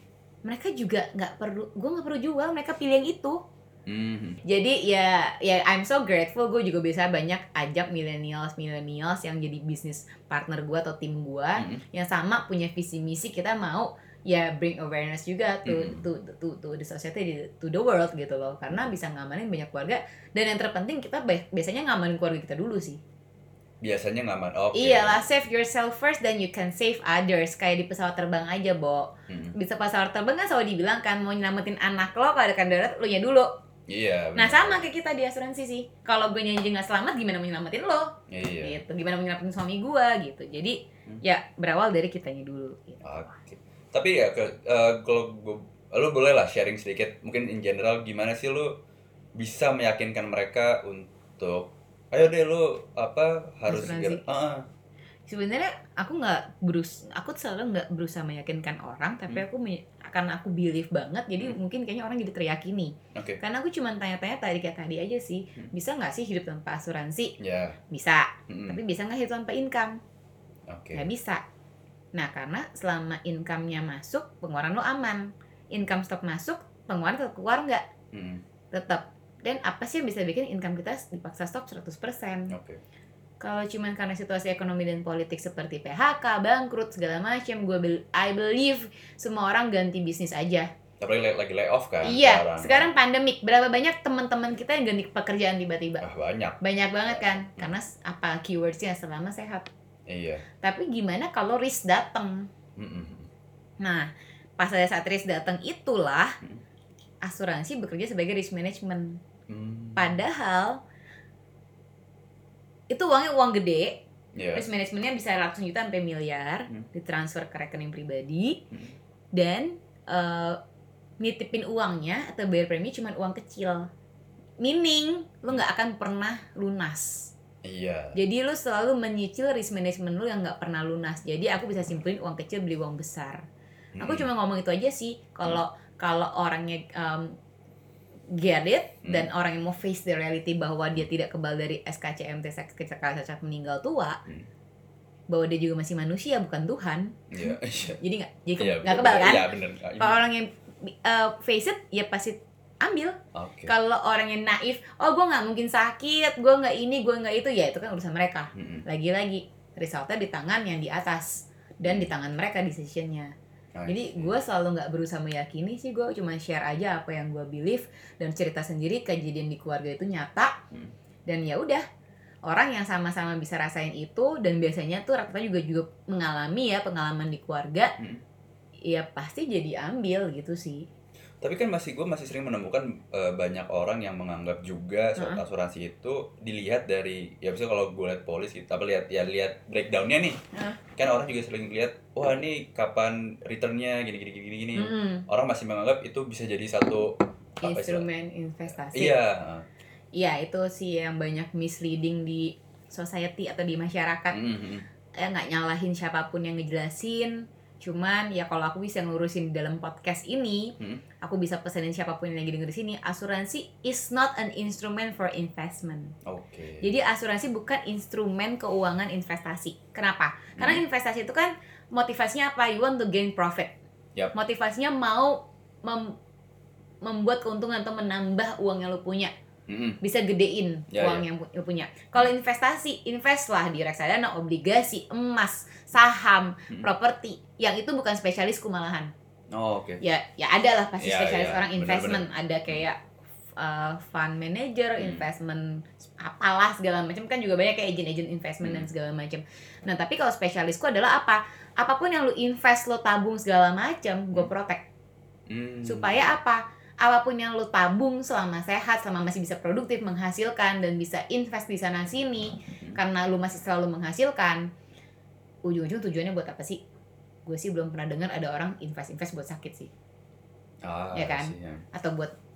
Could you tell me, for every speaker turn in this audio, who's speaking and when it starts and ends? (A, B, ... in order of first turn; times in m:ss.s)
0:00.4-0:03.4 A
0:03.9-0:04.4 B
0:04.4-0:23.0 A
0:11.6-0:11.8 B
0:15.6-0:16.0 B
0:23.8-0:25.2 B
0:24.7-0:33.5 A
0:29.3-0:29.6 B
0:33.9-0:34.9 B
0:34.4-0:43.0 A
0:38.3-0:38.8 B
0:43.0-0:48.7 B
0:49.4-0:54.7 B
0:53.7-0:54.2 A
0:55.3-1:07.4 A
1:03.1-1:03.4 B
1:07.4-1:07.8 B
1:07.9-1:10.0 A
1:08.5-1:08.8 B
1:10.7-1:11.1 B
1:10.9-1:11.4 A
1:12.1-1:17.8 A
1:18.1-1:18.4 B
1:18.7-1:22.6 A
1:22.5-1:22.8 B
1:23.4-1:30.7 A
1:31.0-1:32.9 B
1:32.0-1:36.0 A
1:36.0-1:37.7 B
1:36.6-1:39.7 A
1:40.1-1:40.4 B
1:40.6-1:42.5 A
1:42.8-1:43.3 B
1:43.8-1:46.4 A
1:47.2-1:49.2 A
1:49.5-1:50.2 B
1:50.0-1:50.8 A
1:52.9-1:54.0 A
1:54.4-1:54.7 B
1:54.5-1:58.6 A
1:58.7-1:59.0 B
1:59.3-2:00.6 A
2:01.2-2:03.9 A
2:04.6-2:07.3 A
2:07.6-2:08.2 B
2:08.2-2:13.4 A
2:14.0-2:14.3 B
2:14.0-2:17.4 A
2:18.3-2:24.2 A
2:19.0-2:19.3 B
2:25.3-2:29.5 A
2:27.3-2:28.0 B
2:28.6-2:30.2 B
2:30.0-2:43.3 A
2:33.3-2:33.7 B
2:38.6-2:38.8 B
2:41.8-2:42.1 B
2:43.8-2:44.4 B
2:43.9-2:50.6 A
2:51.3-2:51.8 A
2:52.5-2:57.9 A
2:58.0-2:58.2 B
2:58.9-3:00.9 A
3:01.4-3:10.4 B
3:05.2-3:05.4 A
3:10.5-3:10.8 A
3:11.0-3:18.0 B
3:14.8-3:15.3 A
3:17.6-3:19.2 A
3:18.9-3:19.6 B
3:20.2-3:24.4 A
3:24.3-3:24.9 B
3:25.2-3:36.2 A
3:36.2-3:36.9 B
3:36.8-3:43.7 A
3:40.6-3:40.8 B
3:44.3-3:46.2 A
3:47.0-3:49.3 A
3:49.7-3:50.0 B
3:50.0-3:59.1 A
3:50.9-3:51.2 B
3:59.5-4:00.0 B
4:00.0-4:03.0 A
4:01.0-4:02.8 B
4:03.6-4:14.8 A
4:05.0-4:05.2 B
4:08.6-4:08.9 B
4:15.5-4:16.3 B
4:15.9-4:24.7 A
4:25.6-4:26.8 A
4:27.5-4:29.9 A
4:30.8-4:31.8 B
4:31.1-4:32.3 A